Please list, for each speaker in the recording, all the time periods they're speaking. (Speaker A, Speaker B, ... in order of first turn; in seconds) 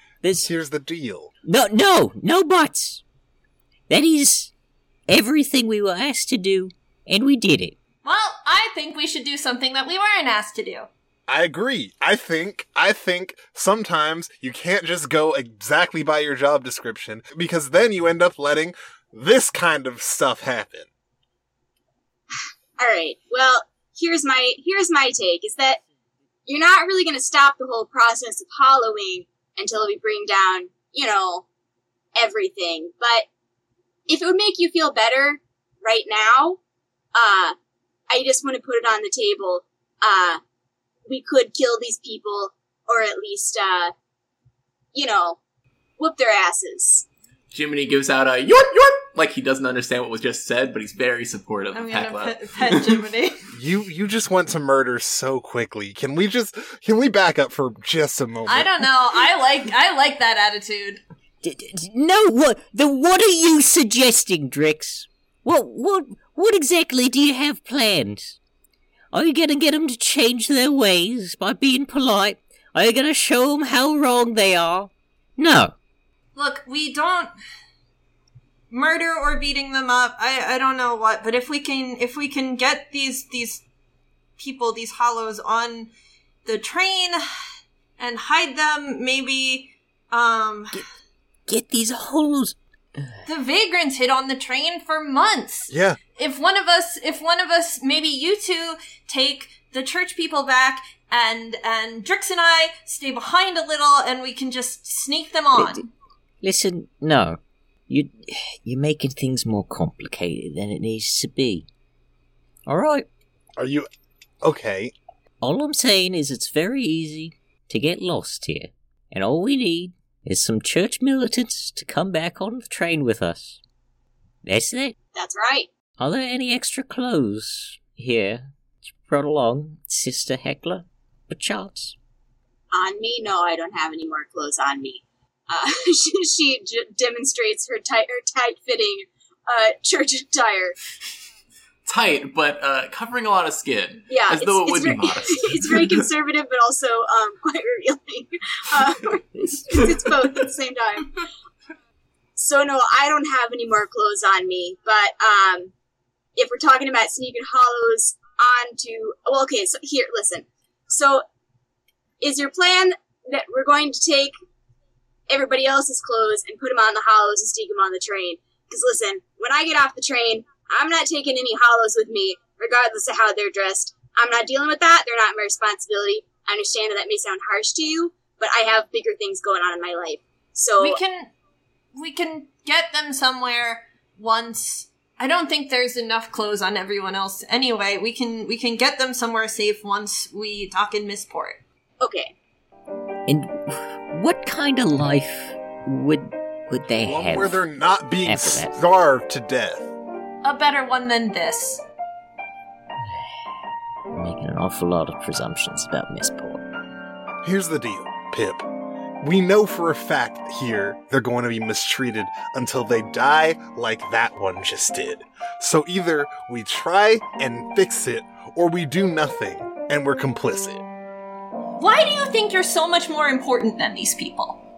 Speaker A: 0.2-0.5, 1.4-3.0, 3.9-4.5, 5.1-7.8, 61.4-68.4, 69.1-75.8, 91.5-93.1, 105.6-105.8, 106.4-111.7, 112.7-113.1, 115.4-123.6, 124.4-125.0, 126.0-131.9, 193.3-197.6, 198.2-198.8, 204.1-206.7
Speaker B: 0.4-1.3, 11.3-20.9, 53.5-58.7, 95.7-96.0, 113.6-113.9, 114.4-114.9, 197.0-199.9, 207.4-208.7, 209.2-220.8
Speaker C: 8.0-10.9, 51.7-53.4, 58.5-61.0, 76.3-77.3, 78.7-83.6, 84.4-85.9, 86.5-87.2, 88.0-90.8, 93.3-105.9, 180.8-181.3, 181.9-191.6, 200.4-201.8, 221.8-224.6
Speaker D: 22.8-25.8, 26.5-31.4, 32.2-33.3, 34.1-36.6, 37.1-37.6, 38.1-40.4, 41.1-43.9, 44.9-45.4, 46.0-47.1, 125.2-125.7, 132.7-140.8, 144.1-151.2, 152.4-155.7, 156.4-161.2, 162.2-164.3, 165.3-181.0, 192.0-192.3
Speaker E: 47.5-53.0, 141.9-146.1